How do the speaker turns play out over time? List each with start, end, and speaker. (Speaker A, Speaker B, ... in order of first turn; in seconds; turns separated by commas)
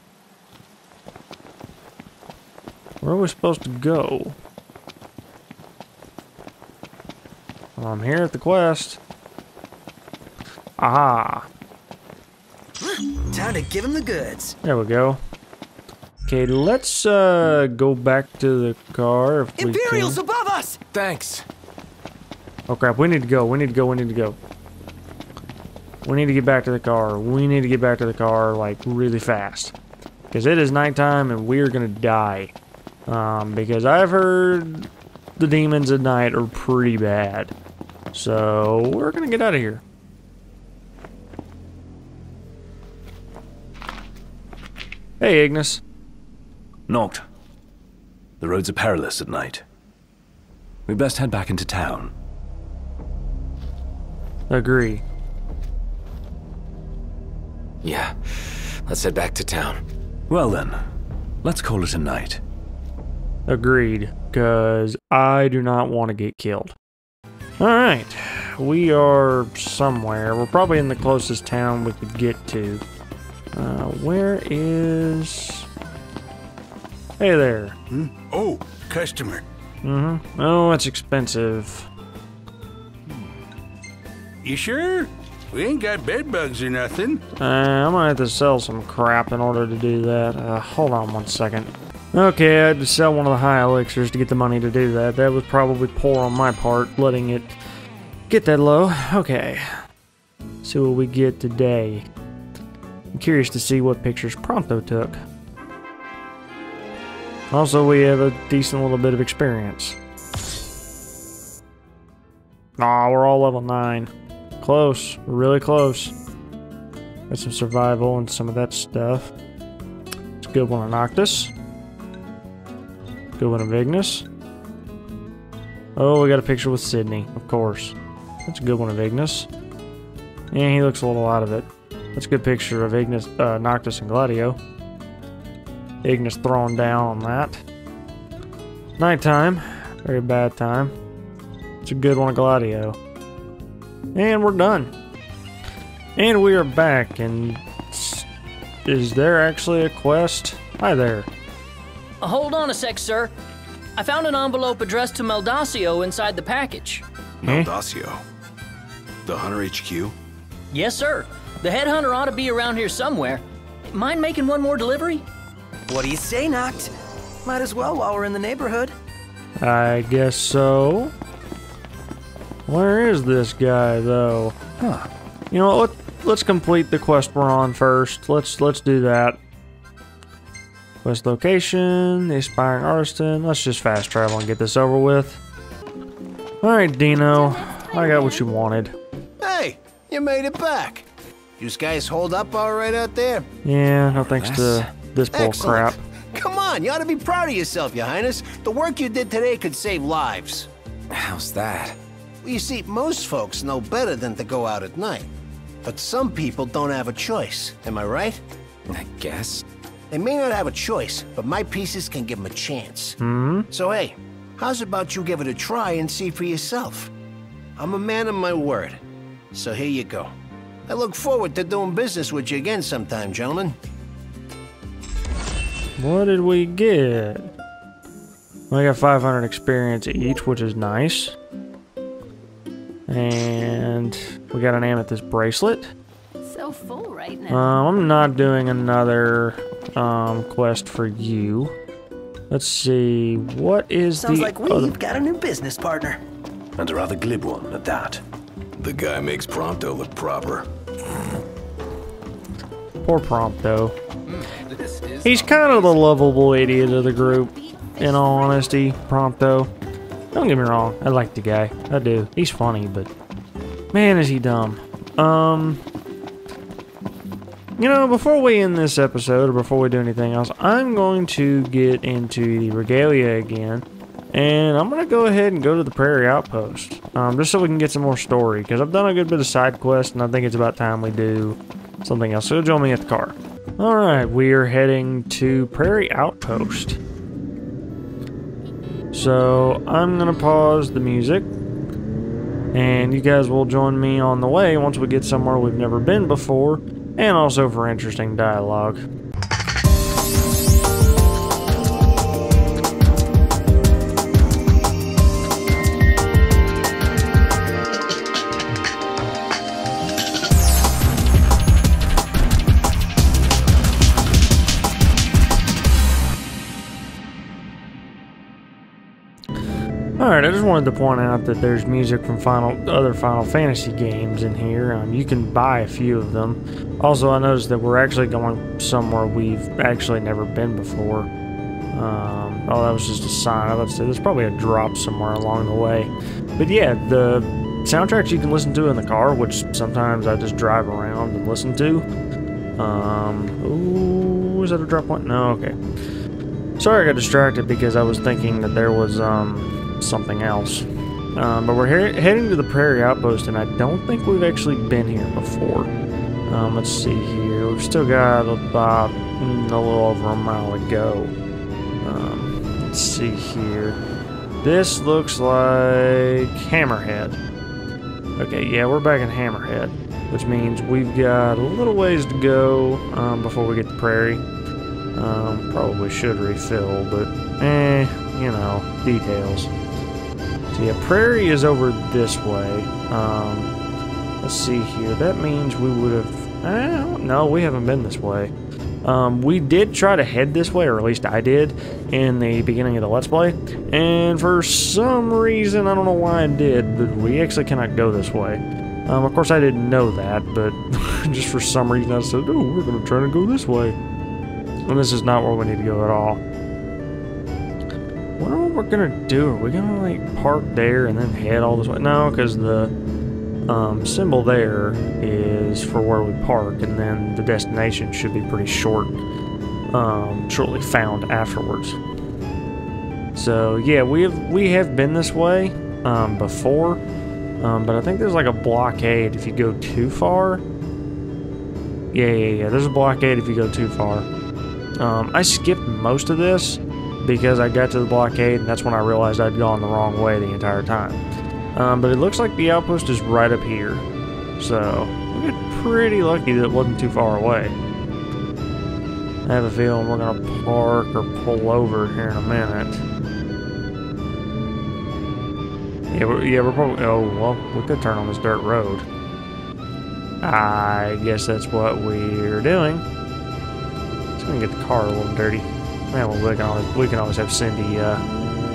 Speaker A: 3.0-4.4, Speaker A: 7.8-9.0, Speaker A: 10.8-11.5, Speaker B: 12.8-14.6, Speaker A: 14.6-15.2, Speaker A: 16.3-20.2, Speaker B: 19.6-20.8, Speaker C: 20.9-21.5, Speaker A: 22.7-24.4, Speaker A: 26.0-29.7, Speaker A: 30.3-32.5, Speaker A: 33.1-37.5, Speaker A: 38.1-39.8, Speaker A: 45.2-45.8, Speaker D: 46.9-47.2, Speaker D: 48.4-49.6, Speaker D: 50.9-52.1, Speaker A: 54.5-55.0, Speaker C: 57.8-59.8, Speaker D: 60.3-60.8, Speaker D: 61.4-62.4, Speaker A: 63.5-66.8, Speaker A: 67.6-72.8, Speaker A: 73.5-75.7, Speaker A: 77.2-77.8, Speaker E: 77.9-79.5, Speaker A: 79.8-81.9, Speaker E: 84.4-87.2, Speaker A: 87.4-97.5, Speaker A: 98.3-99.8, Speaker A: 100.6-102.1, Speaker A: 103.1-105.2, Speaker A: 107.5-110.0, Speaker A: 112.8-116.1, Speaker A: 117.3-119.3, Speaker A: 120.4-121.5, Speaker A: 123.4-124.2, Speaker A: 126.0-128.0, Speaker A: 128.5-129.5, Speaker A: 130.5-134.6, Speaker A: 136.0-137.6, Speaker A: 139.0-140.9, Speaker A: 141.8-143.0, Speaker A: 144.2-144.9, Speaker A: 146.2-148.3, Speaker A: 148.8-151.3, Speaker F: 152.2-153.3, Speaker F: 154.0-157.0, Speaker G: 157.4-158.2, Speaker A: 157.4-157.7, Speaker G: 159.3-160.1, Speaker F: 160.7-165.2, Speaker B: 165.9-166.9, Speaker B: 167.4-168.9, Speaker A: 169.6-171.1, Speaker A: 172.7-174.6, Speaker D: 174.8-175.1, Speaker A: 175.5-179.4, Speaker A: 181.0-185.4, Speaker A: 186.6-188.9, Speaker H: 189.4-191.1, Speaker H: 191.6-193.5, Speaker A: 193.7-196.0, Speaker C: 194.2-194.9, Speaker H: 195.3-200.7, Speaker C: 201.1-202.0, Speaker H: 202.4-205.3, Speaker H: 205.8-208.4, Speaker C: 208.9-209.7, Speaker H: 210.1-213.2, Speaker A: 213.2-213.7, Speaker H: 213.7-217.1, Speaker H: 217.8-219.0, Speaker H: 219.5-220.3, Speaker H: 220.9-223.8, Speaker A: 226.0-227.5, Speaker A: 228.7-231.3, Speaker A: 233.1-235.9, Speaker A: 237.5-241.7, Speaker A: 242.5-245.0, Speaker B: 244.2-246.2, Speaker D: 246.8-248.2, Speaker G: 248.8-250.7, Speaker A: 253.0-253.9, Speaker A: 255.2-259.7, Speaker D: 255.3-256.0, Speaker A: 260.3-263.1, Speaker A: 263.9-265.8, Speaker A: 267.8-287.0, Speaker A: 289.1-291.5, Speaker A: 292.7-299.1, Speaker A: 320.2-331.3, Speaker A: 331.9-342.1, Speaker A: 342.8-345.8, Speaker A: 346.8-355.9, Speaker A: 356.5-361.3, Speaker A: 362.0-364.0, Speaker A: 364.6-367.4, Speaker A: 368.4-374.4, Speaker A: 375.1-379.7, Speaker A: 380.7-383.7, Speaker A: 384.4-388.5, Speaker A: 389.0-404.0, Speaker A: 404.9-406.4, Speaker A: 408.4-412.9, Speaker A: 413.7-419.2, Speaker A: 419.9-422.0, Speaker A: 423.4-427.0, Speaker A: 427.6-430.6, Speaker A: 432.1-434.3, Speaker A: 435.0-441.2, Speaker A: 441.8-444.1, Speaker A: 444.6-447.8, Speaker A: 449.4-453.0, Speaker A: 456.1-459.1, Speaker A: 460.4-463.0, Speaker A: 464.4-468.2